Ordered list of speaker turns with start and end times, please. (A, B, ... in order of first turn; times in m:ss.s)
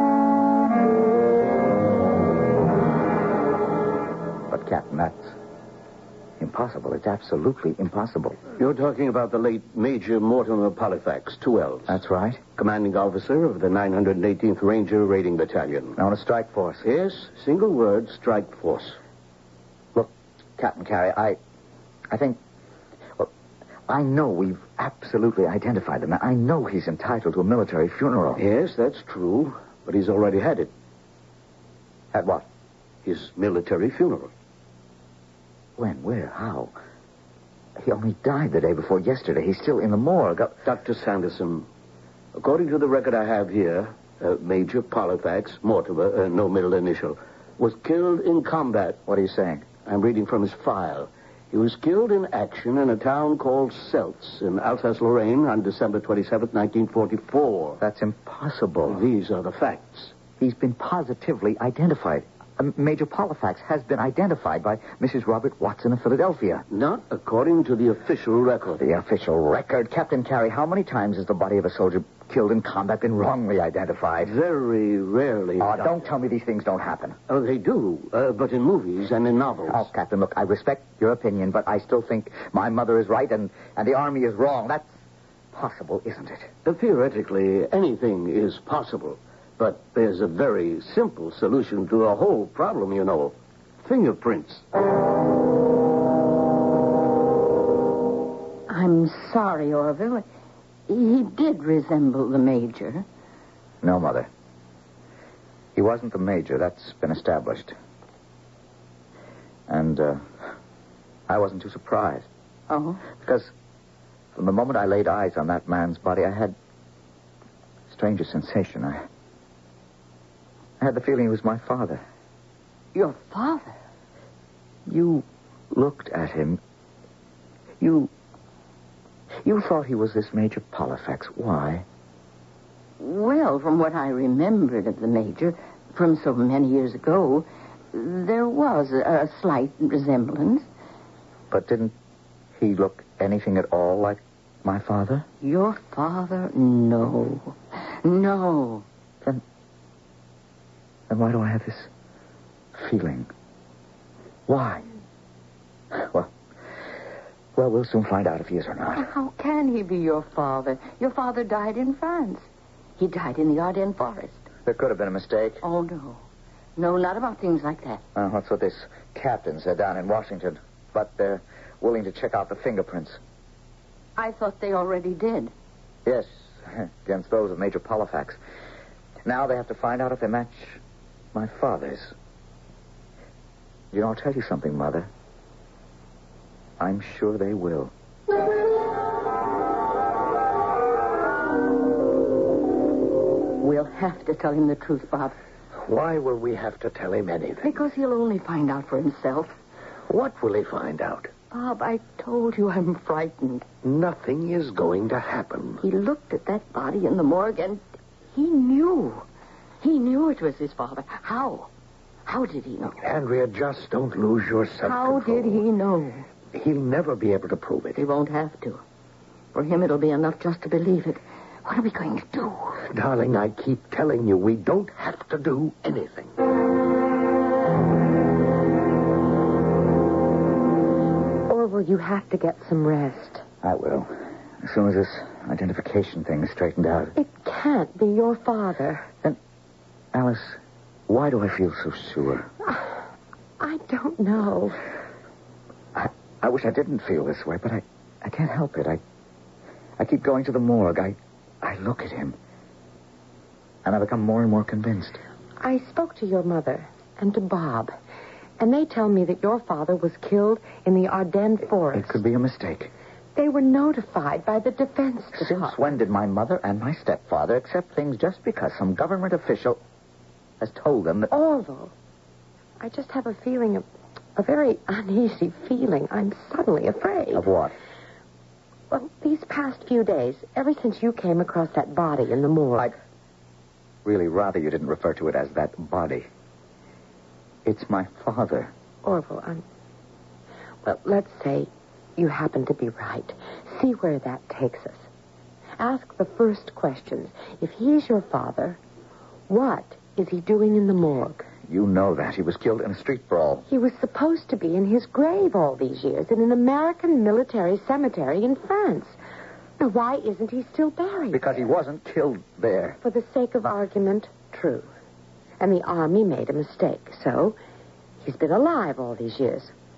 0:04.5-0:05.3 A
0:06.4-0:08.4 A
0:08.6-0:12.0 B
0:11.9-0:12.4 A
0:12.6-0:16.0 B
0:16.0-0:16.8 A
0:16.8-0:19.0 B
0:19.9-0:21.4 A
0:22.1-0:22.4 A
0:23.9-0:28.4 A
0:28.4-0:30.7 B
0:32.1-0:32.4 A
0:33.0-0:34.3 B
0:35.8-0:36.7 A
0:37.8-0:40.6 A
0:40.6-0:41.7 B
0:42.3-0:49.0 B
0:49.1-0:49.6 A
0:49.8-0:57.8 B
0:57.8-0:59.0 A
0:58.9-1:00.1 B
1:00.4-1:06.6 A
1:06.7-1:08.8 B
1:08.8-1:14.3 A
1:14.2-1:16.0 B
1:15.6-1:17.2 A
1:17.3-1:19.9 B
1:19.7-1:24.9 A
1:25.5-1:26.5 A
1:26.6-1:34.6 B
1:38.7-1:40.2 C
1:40.9-1:43.0 C
1:43.8-1:44.3 A
1:45.7-1:47.7 A
1:49.7-1:50.5 A
1:51.3-1:52.3 A
1:52.7-1:53.0 C
1:53.1-1:53.5 A
1:54.3-1:56.5 A
1:57.9-1:59.0 A
2:00.8-2:02.0 A
2:02.9-2:03.7 C
2:04.8-2:06.6 A
2:07.8-2:08.1 A
2:09.4-2:11.8 A
2:13.0-2:20.6 C
2:21.5-2:21.9 A
2:22.6-2:25.2 A
2:25.4-2:28.8 C
2:31.1-2:31.9 A
2:32.7-2:33.3 A
2:34.5-2:34.8 A
2:35.9-2:36.3 A
2:37.5-2:39.1 A
2:38.9-2:42.5 C
2:43.0-2:44.4 C
2:44.6-2:45.6 A
2:45.6-2:46.2 C
2:46.8-2:48.0 C
2:48.1-2:53.2 A
2:54.2-2:55.5 C
2:56.0-2:58.4 A
2:59.2-3:00.8 A
3:01.3-3:02.1 A
3:03.9-3:05.1 A
3:06.8-3:07.9 A
3:13.6-3:15.4 C
3:15.8-3:17.7 D
3:17.6-3:19.6 C
3:20.1-3:21.3 D
3:21.5-3:23.6 C
3:23.8-3:25.8 D
3:25.8-3:27.8 C
3:28.3-3:29.2 C
3:29.8-3:31.7 C
3:32.2-3:33.0 C
3:33.0-3:35.6 D
3:34.8-3:36.2 C
3:36.5-3:38.0 D
3:38.0-3:38.8 C
3:39.5-3:42.8 C
3:42.9-3:46.3 D
3:51.5-3:53.4 E
3:53.6-3:57.2 A
3:57.2-3:59.1 E
4:00.1-4:02.5 A
4:03.6-4:04.8 E
4:05.9-4:09.0 A
4:10.0-4:12.4 A
4:13.8-4:15.2 A
4:15.6-4:17.9 E
4:18.6-4:22.2 E
4:21.9-4:22.9 A
4:23.4-4:25.8 E
4:25.3-4:29.8 A
4:30.6-4:31.3 A
4:31.3-4:31.9 E
4:32.8-4:33.8 E
4:34.4-4:37.4 E
4:37.3-4:37.7 A
4:38.9-4:42.9 E
4:44.0-4:46.3 A
4:47.6-4:48.7 A
4:49.0-4:49.6 E
4:50.8-4:55.0 E
4:55.8-4:58.8 E
4:59.5-5:01.5 E
5:01.6-5:03.6 A
5:03.7-5:09.1 E
5:09.8-5:11.4 E
5:11.3-5:13.0 A
5:13.0-5:14.9 E
5:15.6-5:17.6 E
5:18.2-5:19.7 E